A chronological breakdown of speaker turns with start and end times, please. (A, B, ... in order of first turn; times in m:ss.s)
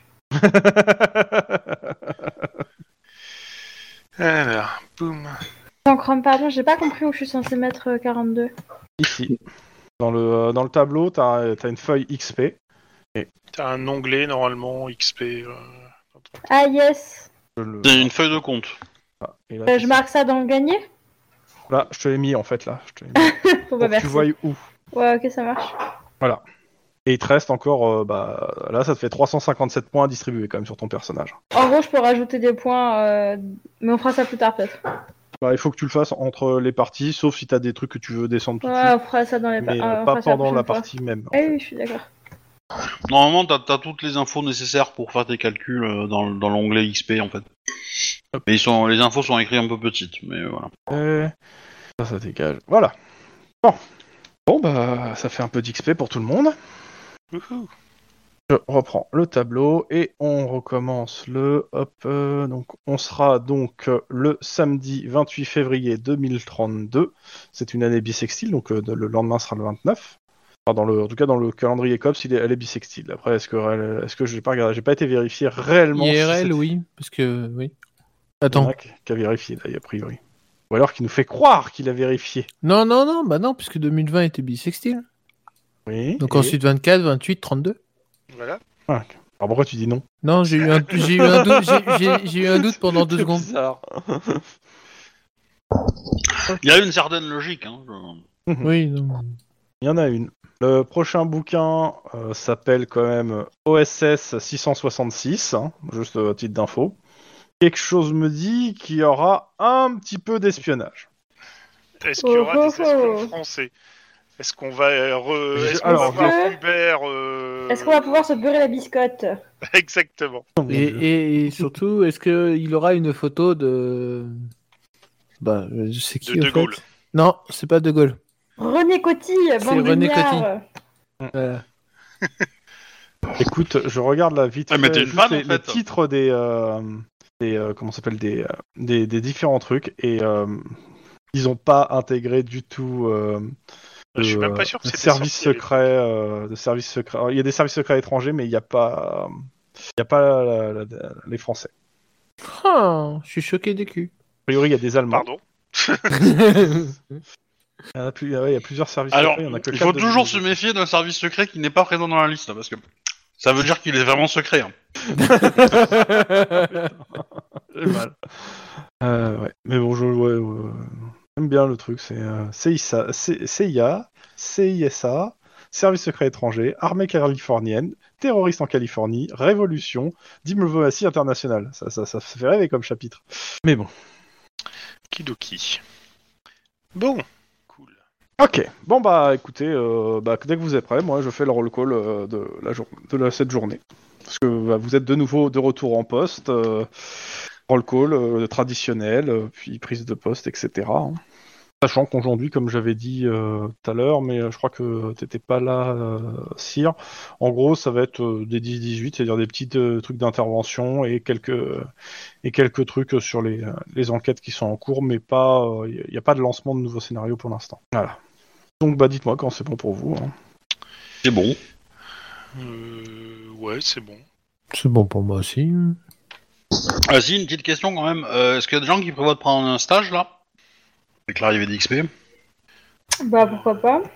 0:00.4-0:02.5 A
0:04.2-0:05.4 B
0:05.8-0:08.5 C
0:09.0-0:09.4 A
0:10.0-0:12.6 A
0:13.5-0:15.7 B
0:16.5-0:17.3 C
0:17.6-0:18.1 A
0:17.8-0:18.8 D
0:19.2-0:20.0 A
0:19.7-0:20.8 C
0:21.7-0:24.6 A
0:23.2-0:24.3 C
0:24.9-0:25.7 C
0:27.1-0:31.4 A
0:31.5-0:34.8 C
0:35.4-0:39.0 A
0:38.6-0:42.1 C
0:39.6-0:41.4 A
0:43.1-0:47.5 D
0:48.5-0:50.7 D
0:50.9-0:51.3 A
0:52.0-0:52.9 A
0:54.5-0:56.6 A
0:57.3-0:57.7 B
0:58.5-1:10.2 A
1:10.7-1:16.6 A
1:16.0-1:17.7 E
1:18.4-1:18.7 E
1:18.5-1:20.2 A
1:20.7-1:22.5 A
1:22.6-1:25.0 E
1:25.9-1:26.6 A
1:26.2-1:27.8 E
1:28.3-1:28.6 B
1:28.9-1:30.0 A
1:30.2-1:33.5 E
1:30.6-1:34.4 A
1:35.7-1:38.2 D
1:36.5-1:36.8 A
1:38.6-1:39.4 E
1:39.8-1:47.0 A
1:47.6-1:51.1 A
1:52.0-1:53.7 B
1:52.2-1:53.3 C
1:54.4-1:58.2 B
1:55.6-1:56.4 A
1:55.8-1:56.6 C
1:57.7-1:59.4 C
1:59.7-2:00.5 B
2:00.6-2:01.8 A
2:00.7-2:04.3 E
2:05.4-2:08.2 E
2:06.2-2:06.8 B
2:08.6-2:10.6 C
2:09.6-2:10.5 E
2:11.4-2:11.6 E
2:13.4-2:20.8 A
2:14.7-2:15.8 D
2:21.3-2:23.5 A
2:24.2-2:25.8 B
2:24.2-2:29.4 A
2:30.0-2:31.7 A
2:32.5-2:34.1 E
2:34.5-2:35.3 A
2:35.1-2:36.3 B
2:36.2-2:36.9 E
2:38.0-2:40.5 A
2:39.1-2:42.8 D
2:43.4-2:44.7 D
2:45.2-2:48.2 A
2:45.4-2:46.7 E
2:49.0-3:03.9 A
3:05.1-3:05.8 B
3:07.0-3:08.0 B
3:08.4-3:16.9 A
3:17.7-3:21.2 A
3:21.8-3:31.9 A
3:32.4-3:38.2 A
3:38.8-3:40.3 A
3:41.2-3:41.6 D
3:42.6-3:44.2 B
3:44.7-3:46.0 E
3:46.9-3:50.3 D
3:51.3-3:52.1 D
3:53.2-3:54.0 C